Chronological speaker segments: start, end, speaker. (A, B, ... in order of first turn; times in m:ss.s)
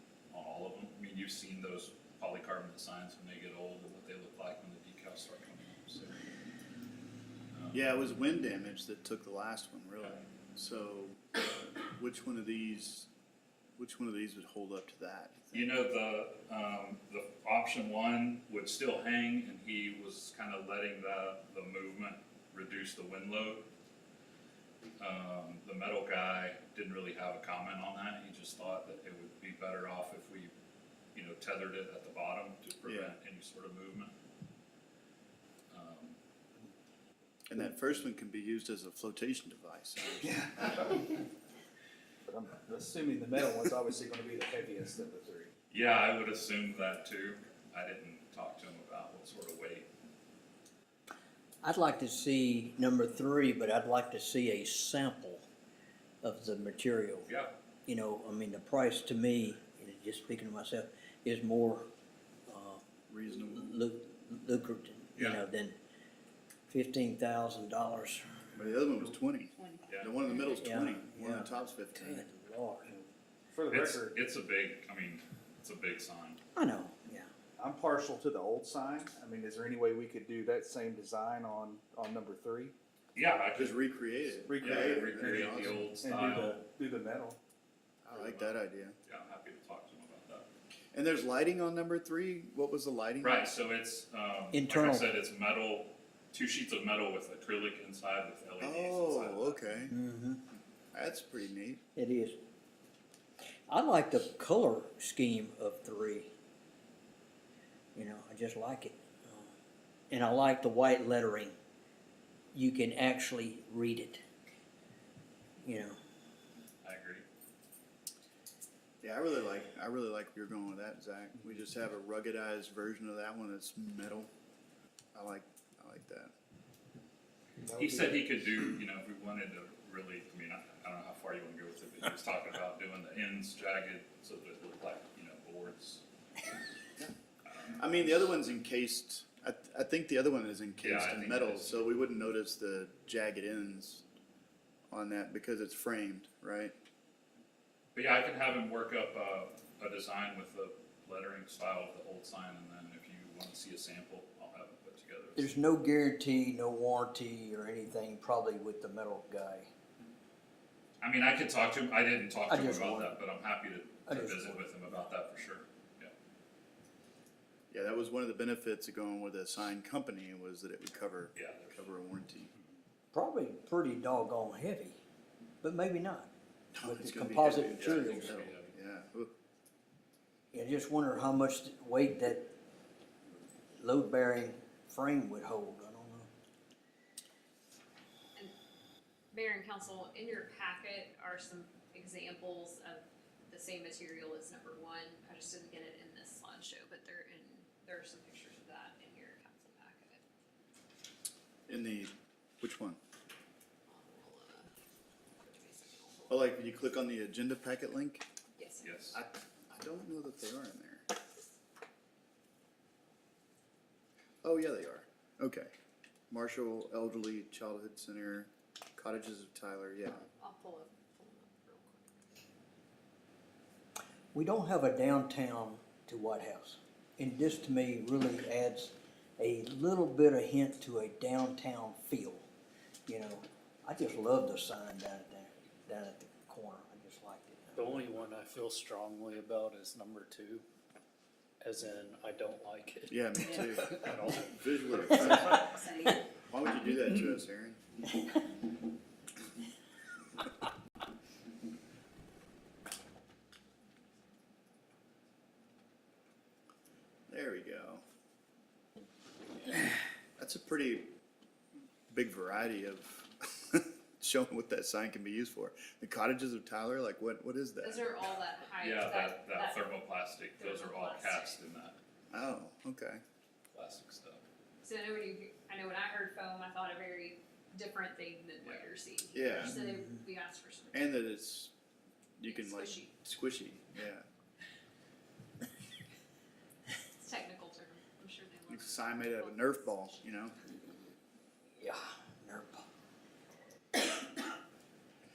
0:00.3-0:06.2 A
0:07.5-0:07.9 A
0:07.7-0:13.1 B
0:13.8-0:15.7 B
0:15.5-0:23.7 A
0:25.0-0:30.5 A
0:31.1-0:34.1 A
0:32.8-0:33.1 B
0:35.7-0:36.2 A
0:37.5-0:40.9 B
0:40.2-0:41.1 C
0:42.2-0:45.5 C
0:45.7-0:49.9 A
0:51.6-0:55.5 D
0:56.2-0:57.3 D
0:57.3-0:57.5 A
0:57.8-1:01.9 D
1:02.5-1:05.8 D
1:03.1-1:03.8 B
1:05.2-1:05.4 A
1:06.7-1:08.6 D
1:08.5-1:12.2 B
1:09.6-1:10.6 E
1:09.9-1:10.2 A
1:10.6-1:12.9 D
1:12.8-1:14.2 C
1:13.7-1:16.4 A
1:16.6-1:17.3 D
1:17.6-1:22.7 C
1:23.1-1:23.8 A
1:23.5-1:25.8 B
1:24.4-1:27.4 C
1:24.6-1:26.6 A
1:28.0-1:29.0 B
1:28.1-1:30.5 A
1:30.9-1:33.5 B
1:33.2-1:39.6 A
1:34.5-1:35.1 D
1:38.6-1:39.9 B
1:39.9-1:40.4 D
1:40.9-1:41.8 B
1:42.0-1:42.4 D
1:43.7-1:46.3 D
1:47.9-1:49.5 D
1:50.1-1:51.5 D
1:52.5-1:54.2 D
1:55.6-1:56.0 D
1:56.8-1:57.2 A
1:59.0-2:04.3 B
2:05.1-2:06.3 B
2:07.6-2:08.2 C
2:07.8-2:16.0 A
2:17.4-2:17.8 A
2:17.8-2:24.0 B
2:20.8-2:21.8 A
2:24.9-2:26.7 B
2:27.9-2:35.5 A
2:35.4-2:39.7 D
2:41.0-2:46.1 A
2:42.5-2:43.2 D
2:44.0-2:44.6 D
2:47.7-2:52.5 B
2:51.4-2:51.8 A
2:53.1-2:55.0 D
2:55.6-2:56.3 D
2:56.7-2:59.3 B
2:56.8-2:58.5 D
2:57.7-2:58.8 A
3:00.5-3:02.5 D
3:03.8-3:06.3 D
3:09.3-3:20.2 E
3:21.7-3:23.0 B
3:23.9-3:24.7 E
3:25.4-3:26.4 E
3:26.3-3:28.2 B
3:28.6-3:28.9 E
3:28.8-3:29.2 A
3:29.1-3:31.0 B
3:34.4-3:35.7 B
3:36.3-3:40.2 B
3:40.4-3:42.2 E
3:44.3-3:52.5 D
3:53.1-3:57.8 D
3:57.7-4:00.6 F
4:01.6-4:05.4 F
4:03.1-4:05.7 B
4:05.1-4:06.2 E
4:06.5-4:07.8 B
4:17.3-4:18.0 B
4:20.4-4:21.1 B
4:22.1-4:28.3 B
4:27.8-4:29.9 E
4:28.8-4:32.0 A
4:30.6-4:31.6 E
4:32.3-4:33.2 B
4:33.7-4:34.4 A
4:34.8-4:41.2 E
4:39.3-4:39.8 B
4:40.9-4:41.7 B
4:42.4-4:44.3 B
4:42.4-4:43.1 E
4:47.2-4:50.2 E
4:48.7-4:50.5 B
4:51.8-4:52.8 D